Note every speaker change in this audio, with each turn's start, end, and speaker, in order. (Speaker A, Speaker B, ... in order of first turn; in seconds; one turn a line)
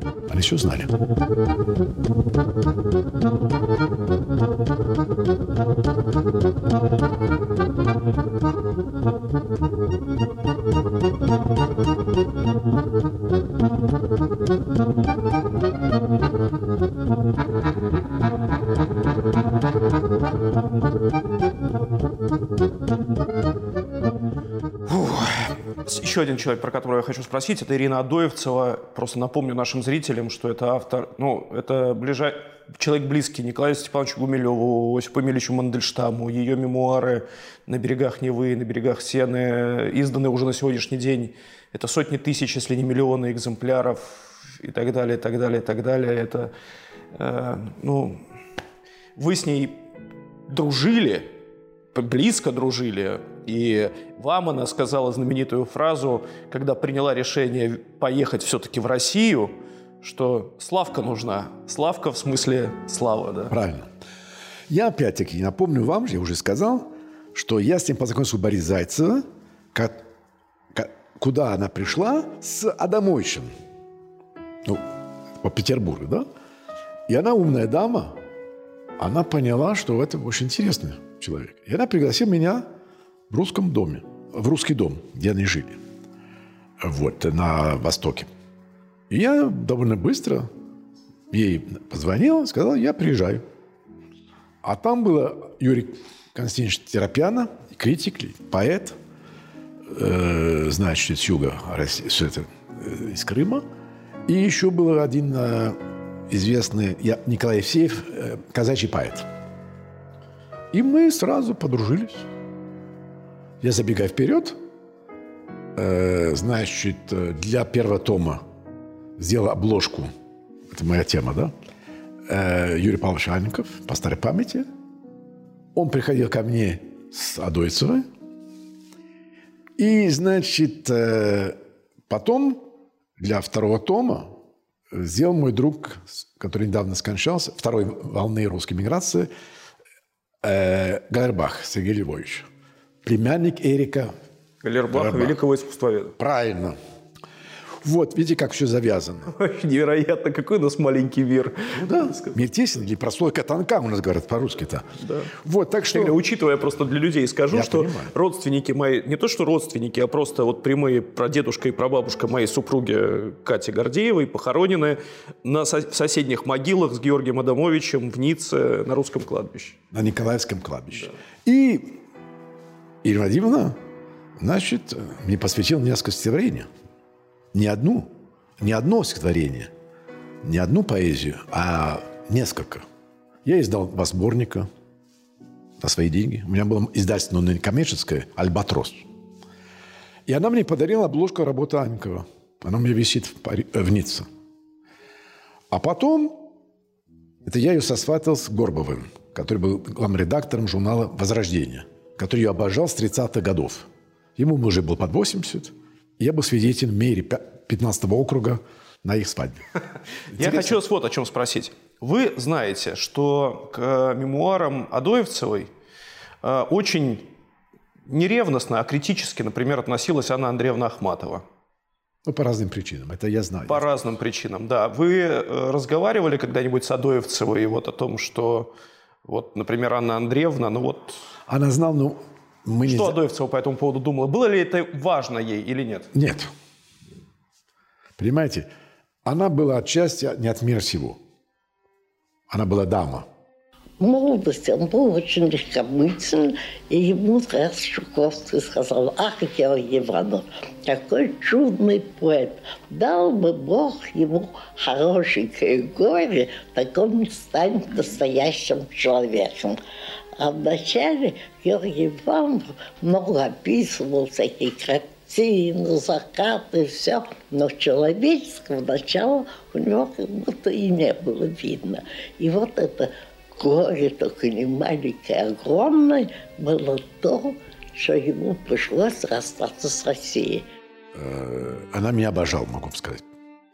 Speaker A: 0.3-0.9
Speaker B: 24.9-46.5
Speaker B: 47.1-48.2
Speaker B: 49.2-49.9
Speaker B: 50.5-51.3
Speaker B: 51.9-63.5
Speaker A: 63.5-63.9
Speaker A: 64.7-70.0
Speaker A: 70.7-73.5
Speaker A: 74.6-74.9
Speaker A: 75.4-76.3
Speaker A: 77.1-78.2
Speaker A: 79.0-82.7
Speaker A: 83.3-85.8
Speaker A: 86.8-88.3
Speaker A: 89.1-90.5
Speaker A: 91.3-93.5
Speaker A: 94.6-99.0
Speaker A: 99.9-103.7
Speaker A: 104.3-105.8
Speaker A: 106.3-109.3
Speaker A: 110.7-112.3
Speaker A: 113.6-114.6
Speaker A: 115.8-118.4
Speaker A: 119.2-120.1
Speaker A: 120.7-121.5
Speaker A: 122.3-124.7
Speaker A: 125.8-128.1
Speaker A: 129.8-131.6
Speaker A: 132.1-134.4
Speaker A: 134.9-139.3
Speaker A: 140.4-142.5
Speaker A: 143.0-144.2
Speaker B: 144.6-146.2
Speaker A: 144.9-145.4
Speaker A: 146.2-146.8
Speaker A: 147.8-149.3
Speaker B: 149.3-152.4
Speaker A: 151.8-156.2
Speaker B: 155.0-155.3
Speaker B: 155.9-169.8
Speaker A: 157.5-158.1
Speaker A: 169.9-172.0
Speaker A: 173.0-173.8
Speaker A: 174.4-176.7
Speaker A: 177.5-179.7
Speaker A: 180.4-182.8
Speaker A: 183.4-184.7
Speaker A: 185.8-189.1
Speaker A: 190.3-194.3
Speaker A: 195.7-196.5
Speaker A: 197.4-209.7
Speaker A: 210.3-210.8
Speaker B: 210.3-215.7
Speaker B: 216.4-217.3
Speaker B: 218.1-221.4
Speaker A: 222.3-223.9
Speaker B: 223.7-228.7
Speaker B: 229.2-231.2
Speaker A: 231.5-233.2
Speaker B: 232.9-236.1
Speaker A: 236.1-236.5
Speaker A: 238.2-238.7
Speaker A: 239.2-241.2
Speaker A: 242.5-243.3
Speaker C: 244.0-259.8
Speaker C: 260.4-280.6
Speaker A: 281.1-283.2